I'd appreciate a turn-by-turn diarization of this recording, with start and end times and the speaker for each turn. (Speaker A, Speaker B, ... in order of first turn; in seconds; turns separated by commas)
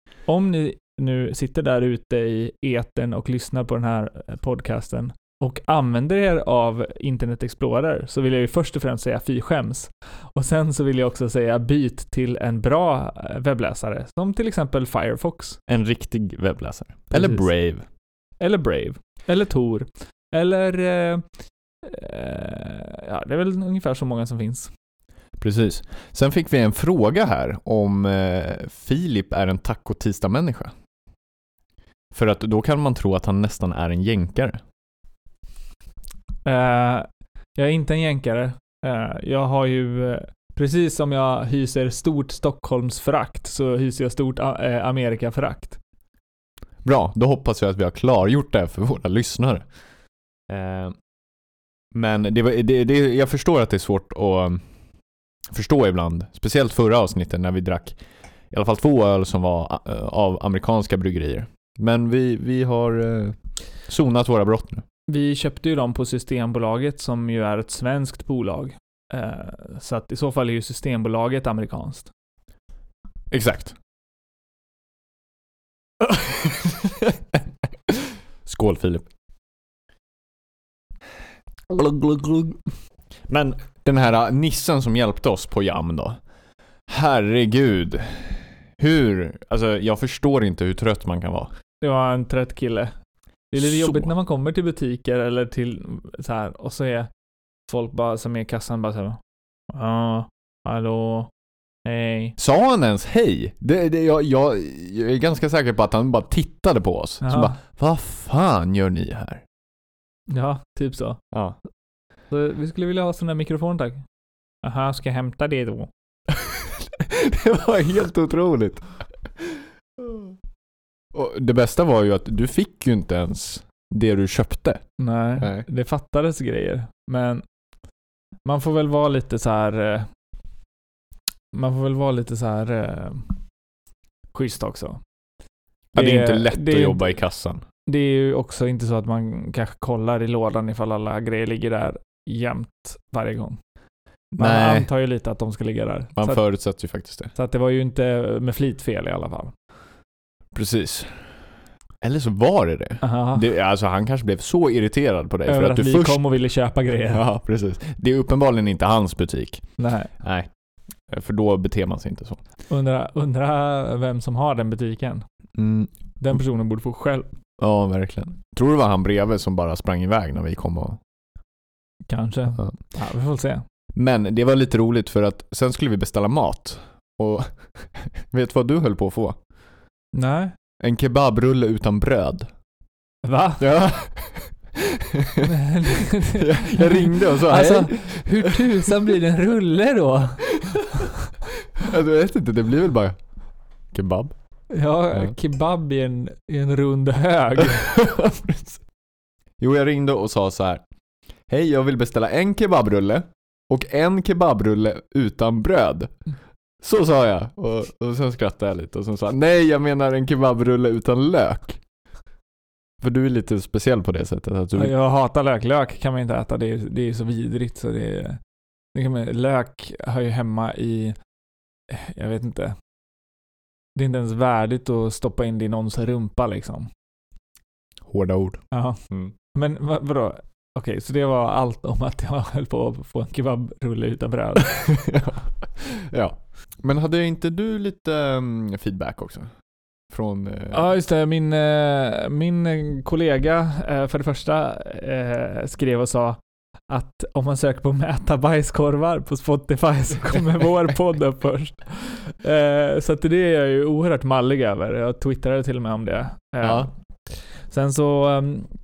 Speaker A: 0.3-15.6, Speaker B: 15.7-17.8, Speaker A: 17.1-17.4, Speaker A: 18.4-21.2, Speaker A: 21.8-24.7, Speaker B: 25.4-30.7, Speaker B: 32.1-34.6, Speaker A: 36.4-45.8, Speaker B: 46.8-49.6, Speaker B: 50.5-51.0, Speaker B: 51.9-54.6, Speaker B: 55.5-58.0, Speaker B: 58.5-63.4, Speaker B: 63.9-64.8, Speaker A: 65.1-72.1, Speaker B: 73.3-73.8, Speaker B: 76.0-79.1, Speaker B: 81.7-82.6, Speaker B: 83.3-86.2, Speaker B: 86.9-91.5, Speaker A: 91.8-92.9, Speaker A: 93.5-97.1, Speaker B: 93.6-94.1, Speaker A: 97.7-101.3, Speaker A: 101.8-102.3, Speaker B: 102.4-109.4, Speaker A: 107.2-107.6, Speaker A: 110.3-111.2, Speaker B: 111.3-111.6, Speaker A: 112.3-114.0, Speaker A: 114.6-115.9, Speaker B: 116.3-118.9, Speaker B: 119.4-120.3, Speaker B: 121.1-124.8, Speaker A: 125.0-127.4, Speaker B: 125.4-125.7, Speaker A: 128.4-130.1, Speaker A: 131.5-133.3, Speaker A: 134.3-135.0, Speaker B: 135.9-137.6, Speaker A: 135.9-137.1, Speaker A: 137.8-143.6, Speaker B: 144.3-144.9, Speaker A: 144.4-146.4, Speaker B: 146.2-147.3, Speaker A: 147.3-149.5, Speaker B: 150.5-151.3, Speaker B: 152.0-156.2, Speaker A: 153.0-153.4, Speaker A: 155.5-157.2, Speaker B: 157.1-159.6, Speaker A: 159.8-160.1, Speaker B: 160.2-160.5, Speaker B: 161.1-162.4, Speaker A: 162.7-165.2, Speaker B: 165.6-165.9, Speaker A: 166.2-167.3, Speaker B: 167.6-171.0, Speaker A: 172.1-173.6, Speaker B: 173.9-179.4, Speaker A: 180.1-180.5, Speaker B: 180.8-182.5, Speaker A: 183.2-183.7, Speaker B: 183.6-189.1, Speaker A: 185.4-191.3, Speaker B: 190.5-191.1, Speaker B: 191.7-193.2, Speaker B: 193.9-194.3, Speaker A: 194.7-197.9, Speaker B: 197.6-198.8, Speaker B: 199.6-200.8, Speaker B: 201.5-206.1, Speaker B: 206.8-211.8, Speaker B: 213.0-214.9, Speaker A: 214.7-218.4, Speaker A: 218.9-221.2, Speaker A: 221.9-222.8, Speaker A: 223.9-226.9, Speaker B: 228.1-229.3, Speaker A: 228.7-229.0, Speaker A: 229.5-234.7, Speaker B: 234.6-239.5, Speaker B: 240.1-240.9, Speaker A: 240.7-246.4, Speaker A: 246.9-256.9, Speaker B: 256.6-256.9, Speaker A: 257.7-258.7